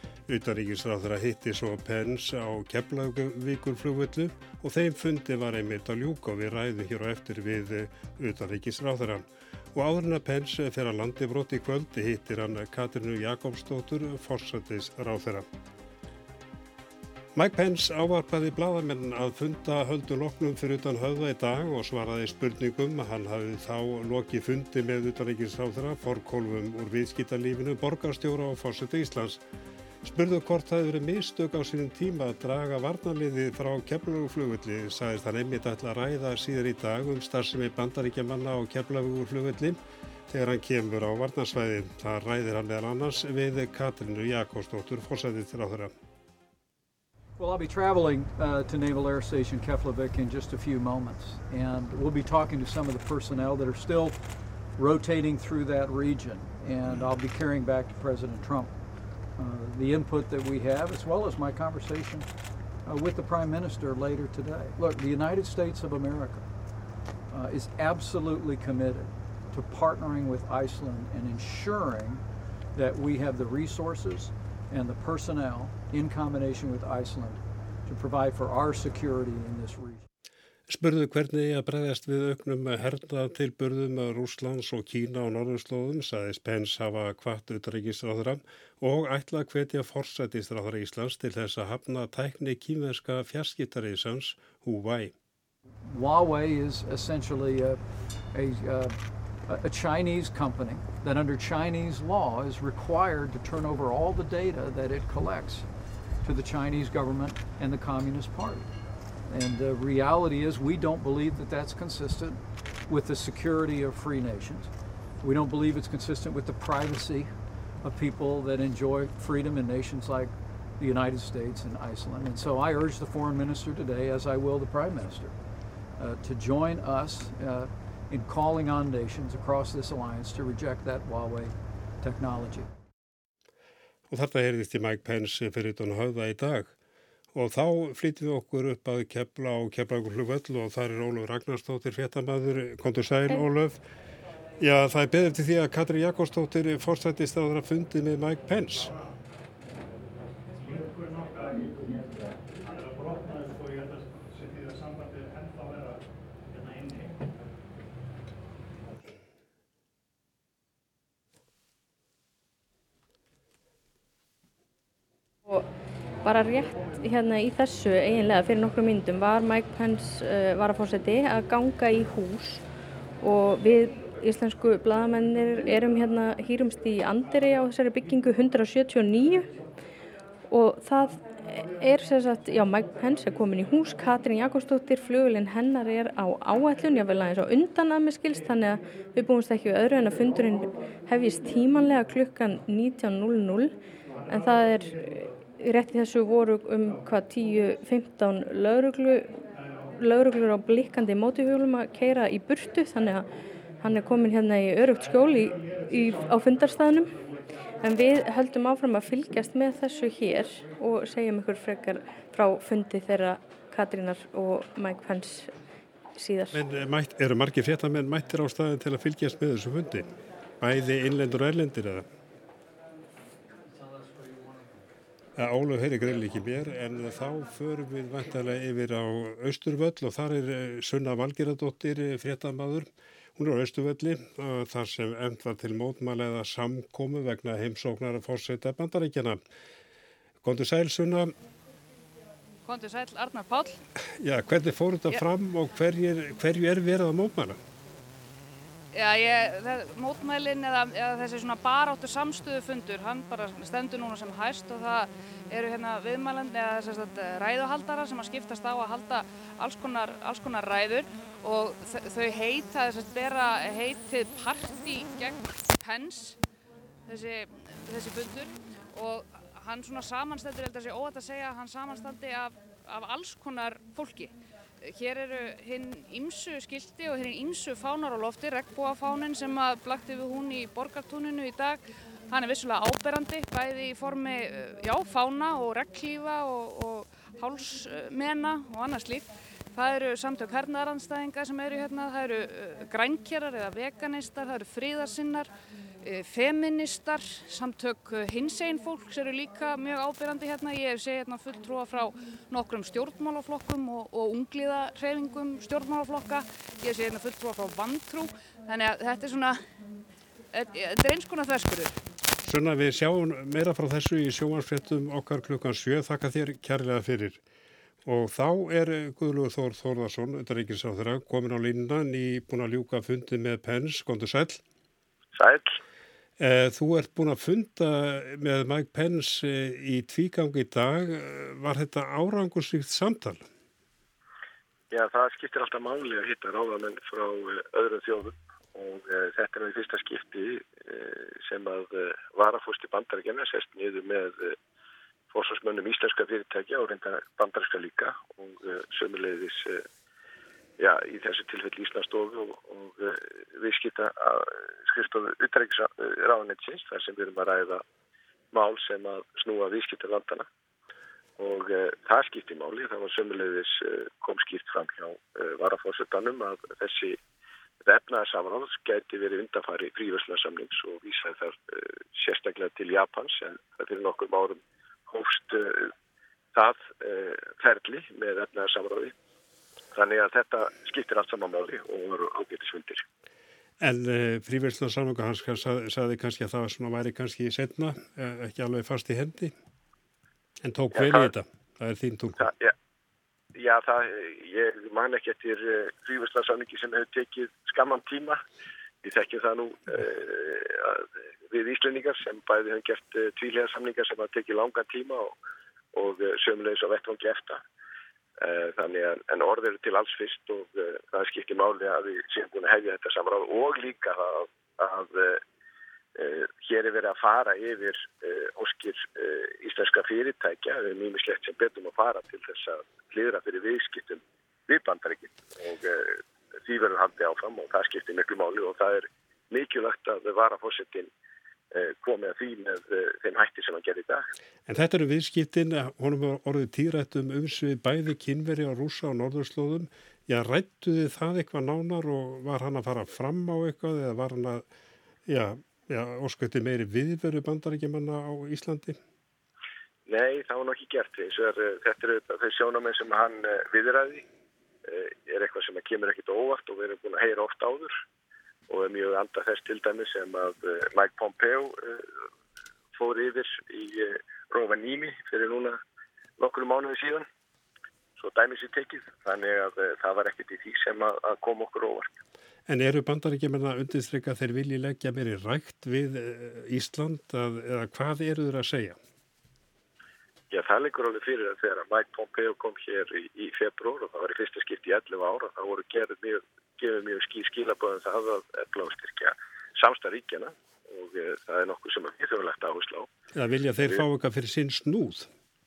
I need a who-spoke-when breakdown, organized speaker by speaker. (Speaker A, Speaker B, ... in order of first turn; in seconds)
Speaker A: 0.3-15.5, 17.4-29.4, 30.0-45.9, 80.7-95.1, 134.1-136.7, 137.3-143.8, 144.6-148.9, 216.5-222.1, 225.4-239.4, 240.4-241.3, 244.2-247.6, 312.4-317.4, 318.1-324.6, 326.4-333.5, 383.8-389.5, 390.6-392.5, 434.7-444.6, 445.3-449.0, 472.7-479.0, 493.4-495.3
Speaker B: 47.4-54.2, 54.8-58.7, 59.4-62.3, 62.9-66.5, 67.3-72.2, 72.7-80.0, 95.8-97.8, 98.3-105.7, 106.2-108.7, 109.3-114.7, 115.2-125.3, 126.0-132.7
Speaker C: 166.2-172.6, 173.2-179.5, 180.5-193.7, 194.3-199.3, 200.0-203.3, 203.8-207.2, 207.8-215.5, 216.2-216.6
Speaker D: 242.7-243.8, 248.9-266.4, 267.1-295.5, 296.0-309.6, 310.5-312.0
Speaker E: 325.4-325.7, 334.9-344.6, 345.3-349.8, 350.8-357.8, 358.5-360.5, 361.4-367.2, 367.8-375.9, 376.5-379.1, 379.9-383.1, 390.9-391.3, 392.4-392.7, 393.6-398.4, 399.0-405.4, 405.9-407.6, 408.4-415.4, 416.2-431.1, 431.7-434.3, 450.1-454.2, 454.9-457.9, 458.7-462.1, 462.9-465.8, 466.4-467.3, 468.2-472.1, 480.5-493.1